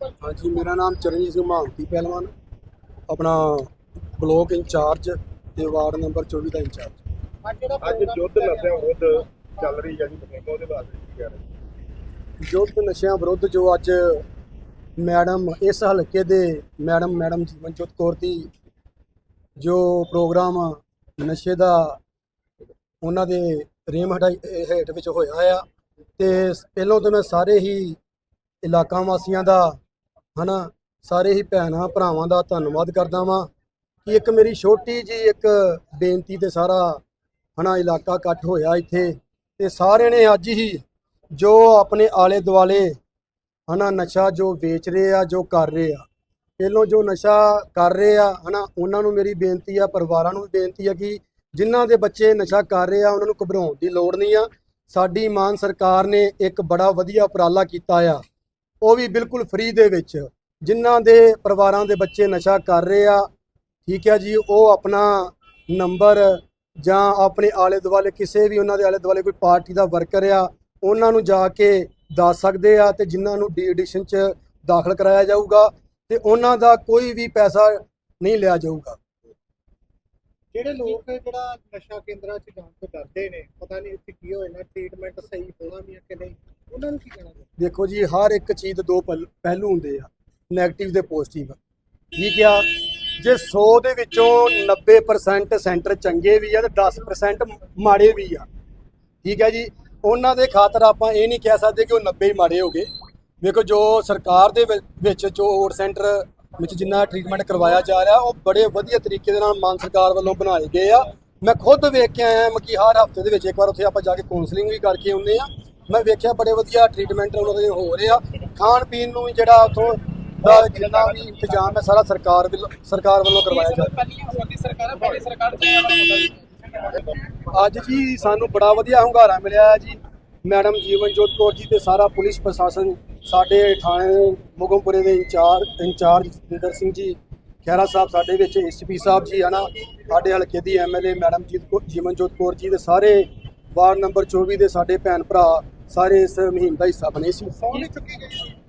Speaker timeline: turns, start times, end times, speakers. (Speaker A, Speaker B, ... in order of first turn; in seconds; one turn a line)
Speaker A: 0.2-2.3
Speaker A: 3.1-7.0
Speaker B: 7.5-9.1
Speaker C: 7.8-11.4
Speaker A: 12.4-14.2
Speaker A: 15.0-18.5
Speaker A: 19.6-22.0
Speaker A: 23.0-25.6
Speaker A: 26.2-28.0
Speaker A: 28.6-29.8
Speaker A: 30.4-33.5
Speaker A: 34.0-37.0
Speaker A: 37.6-40.8
Speaker A: 41.4-43.0
Speaker A: 43.7-46.1
Speaker A: 46.6-58.2
Speaker A: 58.8-63.3
Speaker A: 63.9-79.0
Speaker B: 80.5-87.5
Speaker A: 87.6-91.6
Speaker A: 92.2-98.5
Speaker A: 99.2-102.9
Speaker A: 103.4-124.0
Speaker C: 120.5-121.4
Speaker D: 123.5-126.4
Speaker C: 125.0-125.3
Speaker C: 126.8-127.2
Speaker A: 127.5-147.9
Speaker B: 147.6-148.6